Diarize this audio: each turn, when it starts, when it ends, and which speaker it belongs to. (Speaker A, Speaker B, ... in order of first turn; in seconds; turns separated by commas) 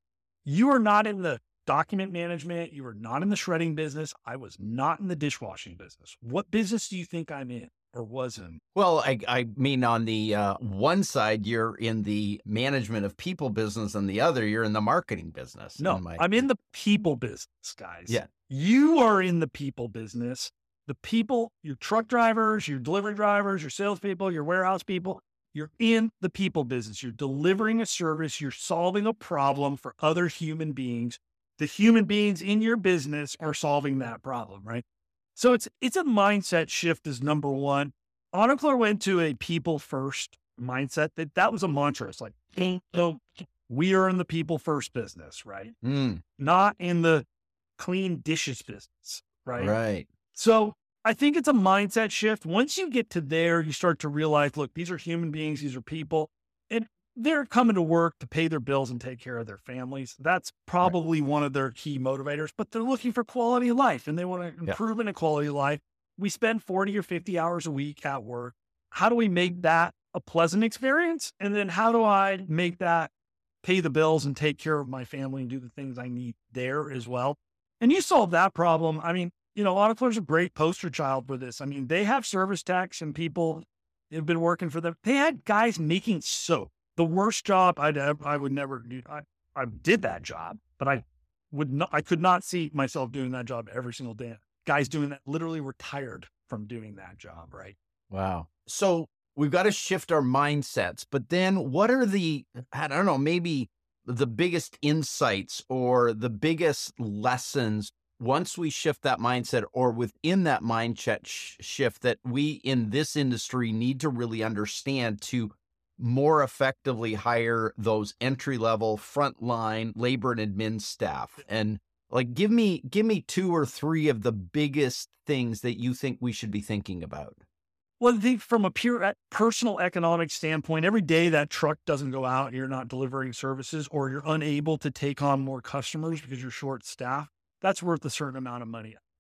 Speaker A: 0.5-8.6, Speaker B: 8.8-16.4, Speaker A: 15.8-34.8, Speaker A: 35.4-45.8, Speaker B: 45.8-46.2, Speaker A: 46.4-47.3, Speaker A: 47.8-49.8, Speaker B: 49.6-50.1, Speaker A: 50.3-73.1, Speaker A: 73.6-97.8, Speaker B: 98.1-127.4, Speaker A: 128.0-139.0